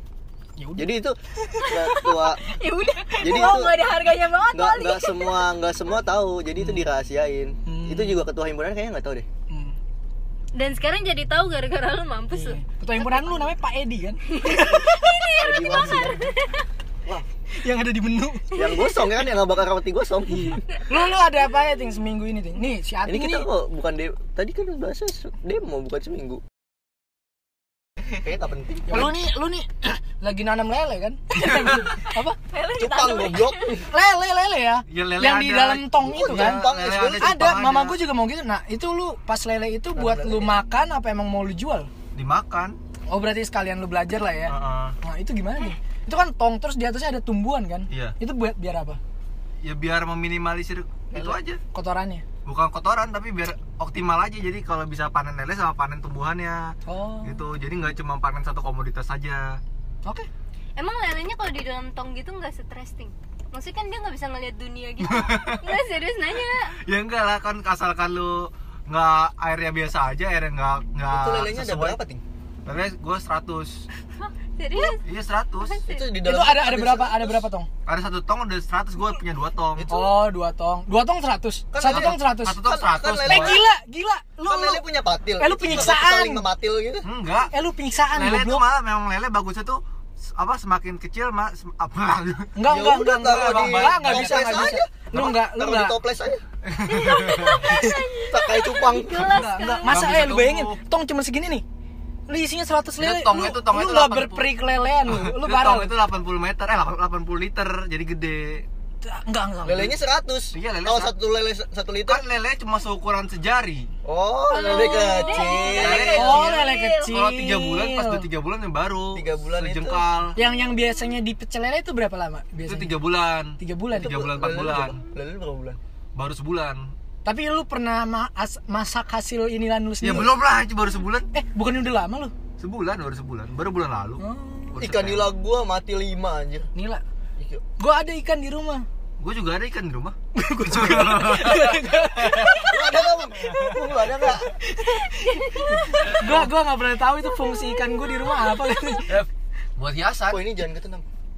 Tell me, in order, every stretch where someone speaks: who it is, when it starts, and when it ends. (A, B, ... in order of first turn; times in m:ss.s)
0:00.6-0:00.9 A
0:00.8-0:02.5 B
0:01.7-0:05.4 C
0:03.0-0:04.6 D
0:03.2-0:03.8 B
0:04.5-0:09.3 B
0:07.7-0:08.2 A
0:09.5-0:09.8 A
0:10.5-0:13.3 D
0:12.3-0:15.4 A
0:14.3-0:16.5 D
0:15.4-0:16.3 B
0:17.6-0:18.7 A
0:18.5-0:20.6 B
0:20.3-0:23.5 A
0:23.0-0:26.4 B
0:28.2-0:29.1 B
0:28.9-0:32.4 A
0:32.5-0:33.8 C
0:32.7-0:33.8 B
0:33.9-0:41.9 A
0:34.9-0:38.0 E
0:36.0-0:37.4 B
0:40.0-0:40.5 B
0:42.2-0:42.8 E
0:43.1-0:49.0 A
0:44.5-0:45.0 E
0:47.9-0:48.2 E
0:49.6-0:51.6 E
0:51.7-0:52.2 A
0:52.4-0:59.6 E
0:56.9-0:57.4 A
1:00.8-1:06.7 D
1:05.0-1:05.7 E
1:06.8-1:12.0 E
1:11.1-1:12.2 B
1:12.6-1:13.9 E
1:14.6-1:15.0 D
1:15.0-1:15.8 E
1:15.6-1:16.1 D
1:15.9-1:17.4 B
1:16.2-1:17.7 A
1:17.9-1:19.9 E
1:19.8-1:20.2 B
1:19.9-1:22.6 A
1:21.7-1:23.6 B
1:21.9-1:23.6 E
1:23.2-1:24.8 A
1:24.4-1:27.1 B
1:25.4-1:26.5 A
1:27.0-1:27.5 E
1:27.5-1:28.7 A
1:28.1-1:32.6 E
1:32.6-1:36.0 A
1:32.7-1:36.4 B
1:33.2-1:34.8 E
1:36.6-1:37.7 E
1:36.9-1:40.0 D
1:37.4-1:38.0 C
1:37.6-1:38.0 A
1:38.2-1:39.5 B
1:39.3-1:41.6 A
1:39.9-1:40.8 E
1:42.3-1:46.0 A
1:43.0-1:48.6 E
1:49.0-1:50.0 A
1:49.7-1:52.2 B
1:50.5-1:51.1 E
1:52.1-1:53.9 E
1:54.0-1:56.5 B
1:54.5-1:57.0 D
1:54.5-1:55.8 C
1:55.7-2:00.4 E
1:56.1-1:58.3 A
1:59.1-2:00.1 B
2:00.4-2:03.0 A
2:02.6-2:05.0 E
2:03.6-2:04.2 A
2:03.9-2:05.8 B
2:06.2-2:06.9 E
2:07.2-2:10.4 A
2:10.0-2:11.3 E
2:11.3-2:12.3 A
2:12.6-2:15.3 E
2:14.2-2:14.8 A
2:14.8-2:16.7 B
2:16.8-2:17.0 A
2:17.4-2:17.6 B
2:17.8-2:18.9 A
2:19.2-2:20.2 E
2:20.4-2:22.9 A
2:20.7-2:22.7 E
2:22.7-2:24.5 B
2:24.3-2:29.2 A
2:25.3-2:25.8 D
2:26.1-2:26.5 E
2:29.1-2:30.4 E
2:30.3-2:31.1 B